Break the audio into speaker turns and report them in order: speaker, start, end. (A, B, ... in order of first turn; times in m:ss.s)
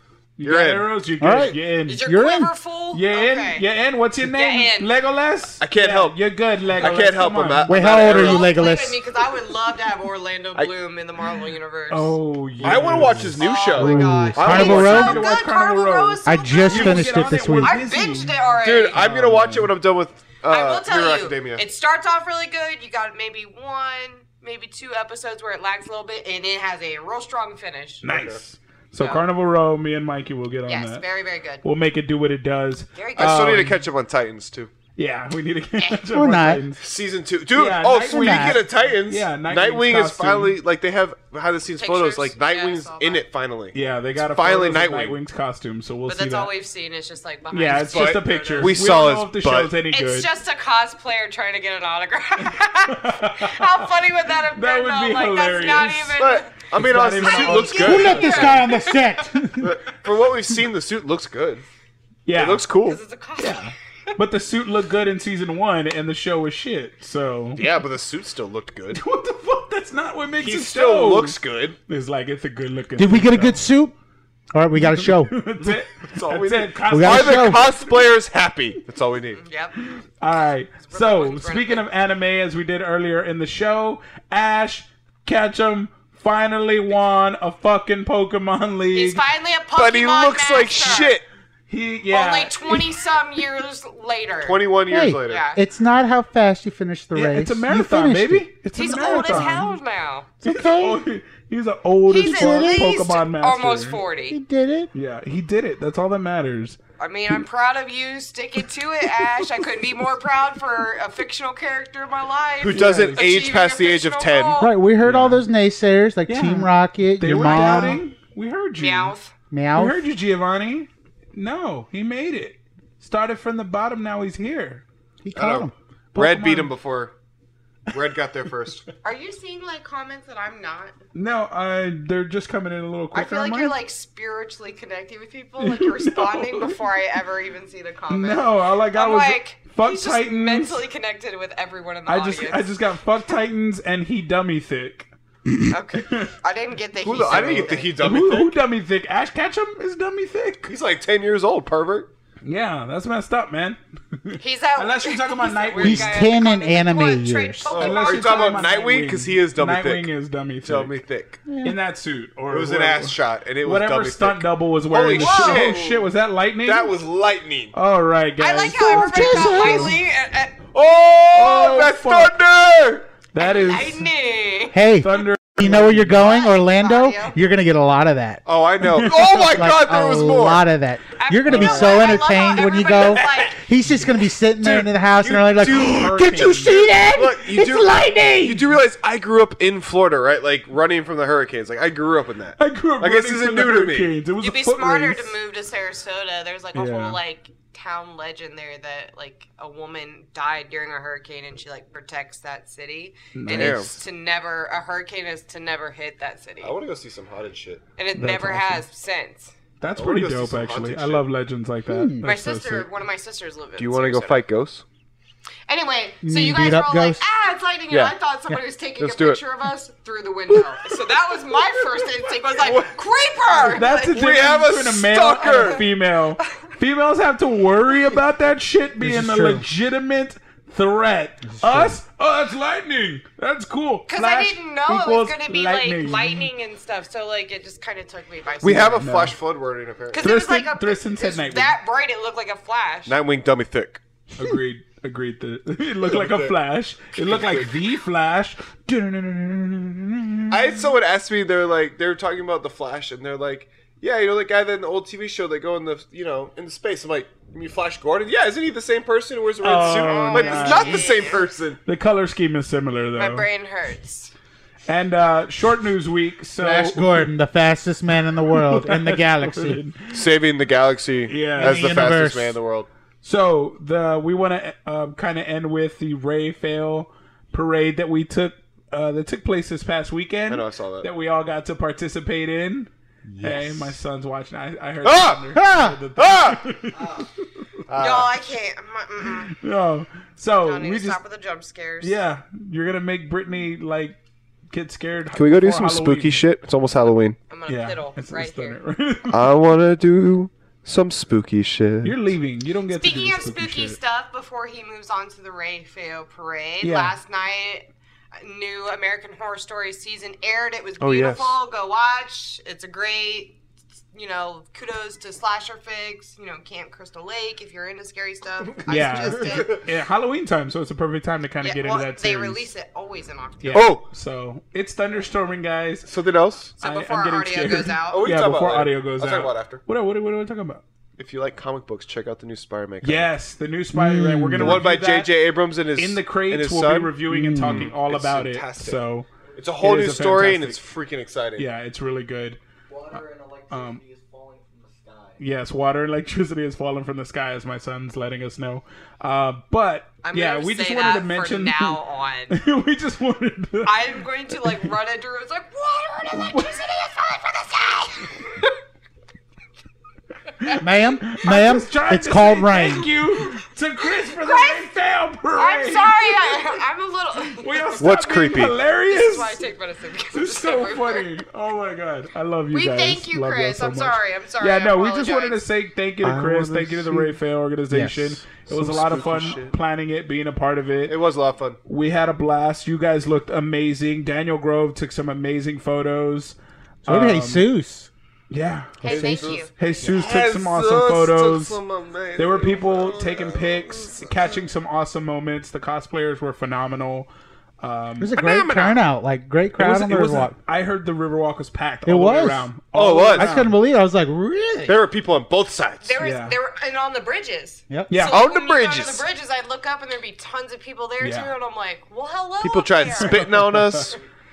0:00.4-0:02.0 A
0:00.4-0:00.9 B
0:01.2-0:02.5 C
0:01.8-0:03.6 D
0:02.9-0:07.9 A
0:04.2-0:04.9 D
0:05.6-0:06.2 B
0:06.7-0:08.5 B
0:07.7-0:09.0 C
0:07.9-0:12.2 D
0:11.9-0:13.4 A
0:12.6-0:15.3 B
0:13.3-0:19.0 D
0:13.7-0:15.2 C
0:14.4-0:18.4 A
0:16.2-0:17.8 C
0:16.7-0:17.0 B
0:18.6-0:21.6 B
0:18.9-0:19.7 A
0:20.5-0:28.0 D
0:28.0-0:31.0 A
0:28.1-0:28.4 B
0:29.0-0:29.2 D
0:30.7-0:31.6 D
0:31.6-0:33.8 A
0:32.9-0:33.6 D
0:33.2-0:34.7 B
0:35.0-0:36.8 A
0:36.1-0:36.6 C
0:36.8-0:45.2 B
0:37.5-0:40.6 A
0:38.0-0:38.6 C
0:41.8-0:43.2 D
0:43.7-0:46.5 A
0:46.1-0:48.8 D
0:47.5-0:50.3 A
0:47.8-0:49.7 B
0:49.9-0:59.3 D
0:52.9-0:53.8 A
0:54.5-0:56.2 A
0:56.2-0:58.6 B
0:56.7-0:58.7 A
0:57.8-0:59.8 C
0:59.6-1:01.6 B
1:02.2-1:02.6 A
1:02.3-1:03.0 B
1:02.8-1:03.7 D
1:03.4-1:07.6 A
1:07.6-1:09.0 B
1:08.9-1:13.6 A
1:10.4-1:11.8 B
1:13.0-1:13.9 C
1:14.5-1:15.4 C
1:14.8-1:17.9 A
1:16.0-1:19.4 B
1:16.9-1:17.7 C
1:19.4-1:19.8 D
1:19.8-1:29.2 A
1:20.9-1:21.8 D
1:28.9-1:31.2 D
1:29.8-1:31.2 B
1:31.7-1:32.9 A
1:32.1-1:34.6 D
1:34.4-1:35.4 B
1:34.9-1:38.5 C
1:35.2-1:35.6 D
1:37.1-1:39.7 A
1:38.8-1:40.3 D
1:40.4-1:41.0 C
1:40.4-1:44.0 A
1:42.1-1:44.4 D
1:42.2-1:42.9 C
1:44.3-1:44.9 C
1:44.9-1:46.8 A
1:47.0-1:54.7 D
1:52.6-1:54.6 B
1:52.7-1:53.3 A
1:54.6-1:58.0 C
1:55.0-1:55.4 A
1:56.2-1:59.1 A
1:57.3-1:57.9 B
1:58.8-1:59.3 D
1:59.5-2:00.0 C
1:59.7-2:04.8 A
2:05.2-2:05.7 C
2:05.3-2:07.1 B
2:06.1-2:06.7 A
2:07.9-2:08.8 B
2:09.0-2:10.9 D
2:11.1-2:13.7 A
2:13.1-2:22.7 D
2:15.6-2:16.8 A
2:18.1-2:20.8 A
2:22.0-2:26.3 A
2:25.7-2:28.0 D
2:27.0-2:28.6 B
2:27.4-2:30.7 A
2:30.6-2:32.1 B
2:32.4-2:36.2 A
2:34.4-2:38.7 D
2:35.8-2:37.7 C
2:37.7-2:40.1 B
2:37.8-2:41.0 A
2:40.6-2:41.4 B
2:41.4-2:41.8 C
2:41.6-2:47.0 A
2:42.5-2:46.1 B
2:45.1-2:45.8 D
2:46.6-2:47.7 B
2:47.7-2:49.9 A
2:48.4-2:50.6 D
2:48.7-2:50.0 C
2:50.7-2:53.0 B
2:51.3-2:52.3 A
2:53.3-2:54.1 A
2:53.4-2:54.8 D
2:54.7-2:58.4 C
2:55.0-2:56.3 A
2:56.1-2:57.4 D
2:58.4-3:00.6 B
2:58.8-2:59.5 A
2:59.0-3:08.6 C
3:01.2-3:03.6 D
3:01.5-3:01.9 A
3:03.2-3:04.8 A
3:04.6-3:14.1 B
3:05.5-3:06.8 A
3:12.6-3:15.3 A
3:14.4-3:26.8 D
3:16.7-3:17.2 A
3:23.3-3:24.0 A
3:23.5-3:23.9 B
3:26.6-3:27.8 B
3:28.0-3:29.5 D
3:28.1-3:28.8 A
3:29.8-3:32.9 A
3:30.0-3:31.2 B
3:31.9-3:32.2 C
3:32.2-3:34.4 D
3:33.8-3:34.8 B
3:35.7-3:44.2 D
3:36.2-3:37.2 C
3:37.9-3:38.1 B
3:39.0-3:39.4 B
3:42.5-3:42.9 B
3:43.5-3:45.8 B
3:43.6-3:56.5 A
3:45.5-3:45.8 D
3:49.0-3:49.6 C
3:51.4-3:52.0 C
3:54.1-3:59.0 D
3:58.6-4:00.2 B
3:58.7-3:59.4 A
4:00.1-4:03.1 D
4:00.2-4:01.8 A
4:03.1-4:04.0 B
4:04.3-4:10.5 A
4:06.0-4:06.6 B
4:07.2-4:07.7 B
4:10.5-4:21.8 B
4:19.6-4:21.2 A
4:19.8-4:21.4 D
4:21.8-4:23.5 A
4:23.2-4:24.3 D
4:24.9-4:27.3 A
4:26.6-4:29.8 C
4:28.5-4:30.2 A
4:30.1-4:32.9 B
4:31.3-4:31.9 A
4:31.5-4:32.6 C
4:33.2-4:47.2 A
4:40.5-4:41.1 B
4:43.3-4:44.0 C
4:45.0-4:45.5 B
4:45.5-4:46.0 C
4:46.2-4:46.7 B
4:46.9-4:47.3 E
4:47.9-4:48.3 B
4:48.0-4:49.5 D
4:49.5-4:51.2 A
4:50.6-4:52.2 D
4:52.0-4:54.2 A
4:54.7-4:56.4 A
4:55.3-4:57.4 B
4:57.5-4:58.8 D
4:57.7-4:59.5 A
4:59.3-5:02.2 B
5:02.0-5:04.0 A
5:02.9-5:07.9 D
5:06.8-5:07.1 A
5:08.4-5:13.6 D
5:11.0-5:11.6 B
5:14.1-5:19.8 D
5:18.9-5:22.7 A
5:18.9-5:19.8 B
5:21.6-5:23.9 D
5:23.6-5:26.1 A
5:23.7-5:24.0 B
5:26.0-5:26.7 B
5:26.8-5:30.8 A
5:26.8-5:28.2 D
5:28.1-5:29.8 B
5:31.2-5:33.3 B
5:33.0-5:35.4 A
5:33.9-5:34.9 C
5:34.6-5:39.0 B
5:35.9-5:39.3 A
5:37.3-5:37.9 C
5:39.6-5:41.7 B
5:39.8-5:40.8 A
5:41.6-5:42.6 A
5:42.9-5:45.4 E
5:43.1-5:44.0 A
5:45.4-5:54.9 A
5:50.2-5:52.6 D
5:53.8-5:58.7 D
5:56.3-5:56.8 A
6:00.6-6:06.6 A
6:00.8-6:03.1 C
6:04.3-6:04.9 D
6:05.5-6:07.9 D
6:07.6-6:09.6 A
6:08.0-6:08.8 B
6:09.0-6:11.4 D
6:10.3-6:21.2 A
6:12.7-6:15.6 D
6:16.2-6:17.4 B
6:17.9-6:18.4 C
6:18.7-6:19.7 B
6:21.1-6:21.8 B
6:21.8-6:27.7 A
6:27.0-6:28.1 C
6:28.5-6:31.8 A
6:29.0-6:29.9 D
6:29.0-6:34.6 B
6:32.4-6:37.3 A
6:37.8-6:38.3 A
6:38.2-6:40.6 C
6:38.3-6:39.0 B
6:39.8-6:43.8 A
6:42.0-6:42.7 C
6:42.9-6:43.6 B
6:43.3-6:45.0 C
6:44.8-6:46.1 B
6:46.0-6:53.6 D
6:46.2-6:46.6 A
6:48.1-6:48.4 A
6:48.2-6:49.2 B
6:51.2-6:51.5 A
6:52.6-6:54.2 B
6:53.2-6:54.1 A